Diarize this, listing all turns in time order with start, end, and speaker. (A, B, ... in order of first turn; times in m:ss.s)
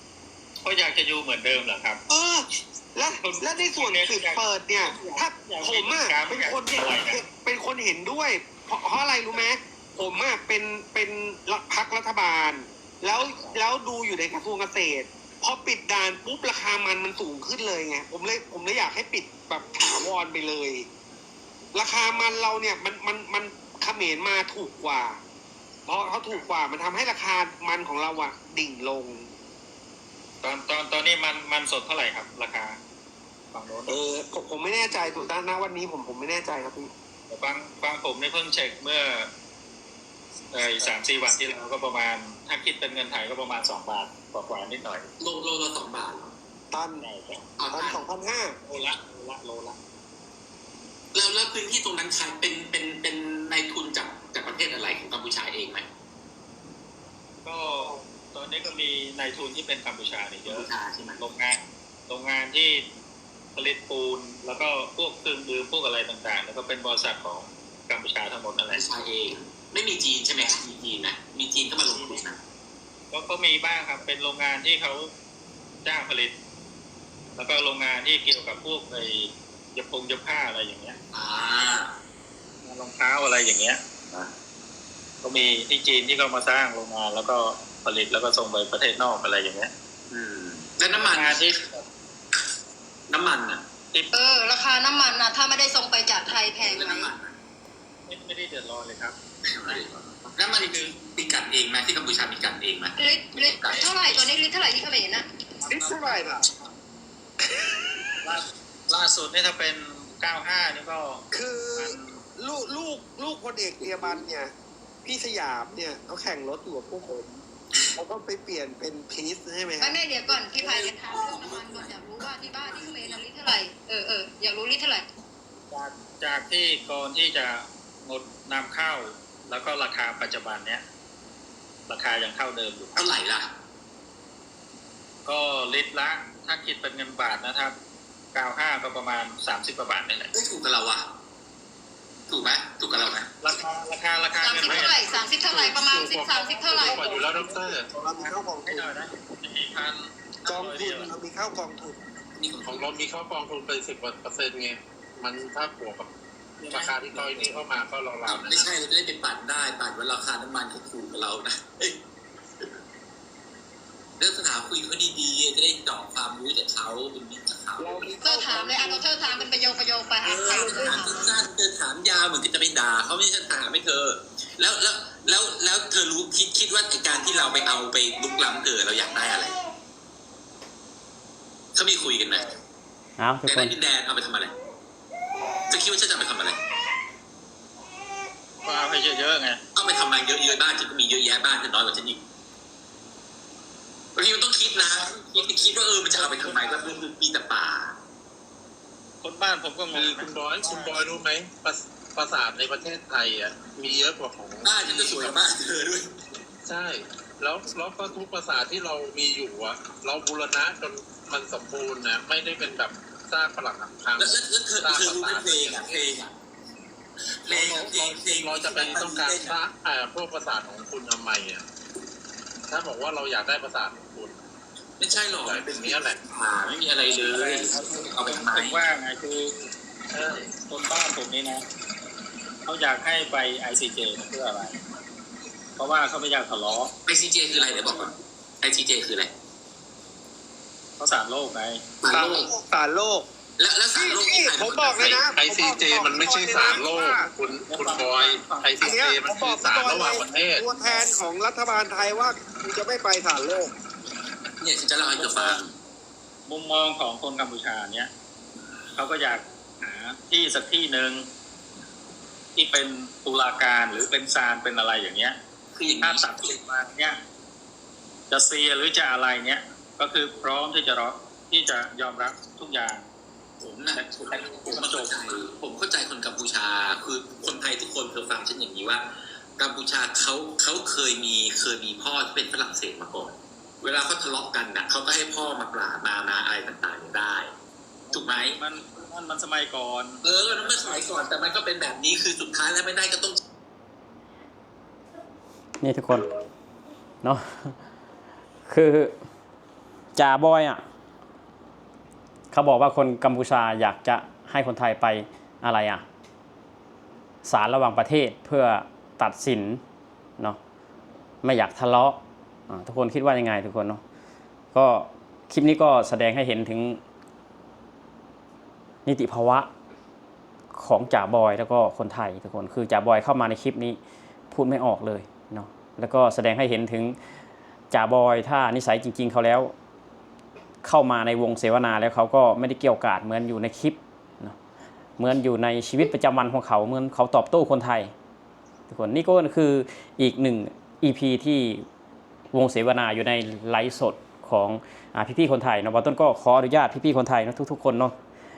0:00.6-0:02.0 A
0:02.1-0:20.9 B
0:03.2-0:07.2 A
0:13.2-0:13.6 A
0:21.7-0:25.2 B
0:25.9-0:29.3 B
0:30.4-0:32.8 A
0:33.5-0:34.0 A
0:33.9-0:36.9 B
0:37.3-0:39.3 A
0:40.5-0:45.1 A
0:45.2-0:46.4 C
0:46.7-0:47.0 B
0:47.0-0:47.5 A
0:47.6-0:48.0 C
0:47.7-0:48.6 B
0:48.7-0:49.8 A
0:51.1-0:55.9 C
0:57.4-1:02.9 A
1:00.5-1:01.2 C
1:03.6-1:08.8 A
1:08.7-1:12.4 C
1:11.9-1:12.2 A
1:13.1-1:15.1 A
1:15.8-1:16.4 A
1:17.4-1:21.0 A
1:21.1-1:22.0 C
1:22.6-1:23.8 A
1:25.2-1:29.7 A
1:30.1-1:31.5 C
1:31.0-1:31.9 A
1:33.1-1:33.6 C
1:33.9-1:34.4 A
1:34.1-1:37.1 D
1:36.6-1:37.4 C
1:38.1-1:40.9 A
1:39.5-1:44.2 C
1:43.0-1:45.3 D
1:45.6-1:46.7 A
1:45.6-1:46.4 B
1:47.5-1:48.0 B
1:48.2-1:52.2 A
1:51.3-1:54.5 B
1:55.0-2:00.9 B
1:59.8-2:05.1 D
2:05.7-2:10.8 A
2:11.9-2:13.1 A
2:13.0-2:13.5 C
2:15.2-2:17.8 A
2:18.3-2:20.3 A
2:20.3-2:21.1 C
2:22.3-2:23.3 C
2:23.4-2:25.1 A
2:24.4-2:27.2 D
2:25.5-2:27.9 E
2:26.5-2:27.3 A
2:27.3-2:28.9 B
2:28.2-2:31.1 A
2:30.5-2:32.0 B
2:32.4-2:32.9 C
2:32.6-2:36.1 E
2:36.6-2:37.7 A
2:36.7-2:38.7 E
2:38.2-2:42.0 C
2:44.2-2:48.0 C
2:47.8-2:49.7 B
2:48.2-2:51.2 D
2:50.2-2:59.6 C
2:50.5-2:51.0 B
3:01.8-3:02.5 C
3:03.2-3:03.8 F
3:03.4-3:04.5 C
3:05.7-3:06.6 C
3:08.6-3:09.6 A
3:09.8-3:12.2 C
3:14.2-3:18.0 C
3:19.2-3:21.0 A
3:19.9-3:25.4 E
3:24.6-3:26.1 C
3:26.7-3:36.2 E
3:34.2-3:36.4 C
3:37.4-3:39.6 C
3:37.5-3:41.6 E
3:42.7-3:44.5 E
3:45.0-3:48.9 C
3:45.3-3:46.2 E
3:47.4-3:49.6 A
3:50.1-3:50.5 E
3:50.6-3:51.6 A
3:52.6-3:54.8 A
3:55.8-3:56.9 A
3:57.0-3:59.3 C
3:57.6-3:58.1 A
4:01.0-4:01.9 A
4:02.0-4:02.5 C
4:02.1-4:03.3 B
4:03.6-4:05.3 C
4:03.9-4:07.3 B
4:05.3-4:11.0 E
4:07.7-4:09.0 A
4:08.8-4:13.7 B
4:14.6-4:15.7 C
4:15.0-4:15.6 A
4:16.5-4:18.1 A
4:18.9-4:21.3 A
4:22.6-4:25.4 A
4:25.7-4:26.6 C
4:25.9-4:27.2 A
4:28.3-4:33.1 A
4:33.6-4:47.5 C
4:34.0-4:35.3 A
4:48.1-4:50.2 A
4:48.1-4:48.6 C
4:50.2-4:53.4 C
4:55.8-4:56.3 F
4:57.2-4:57.8 F
4:58.7-4:59.2 F
5:00.2-5:00.8 F
5:02.5-5:06.0 F
5:07.4-5:09.8 F
5:11.4-5:12.2 F
5:12.7-5:14.0 F
5:14.7-5:17.0 F
5:19.1-5:19.7 F
5:20.7-5:24.0 F
5:24.5-5:27.2 F
5:27.9-5:29.7 F
5:30.8-5:34.6 F
5:35.2-5:38.1 F
5:38.9-5:41.8 F
5:42.5-5:48.2 F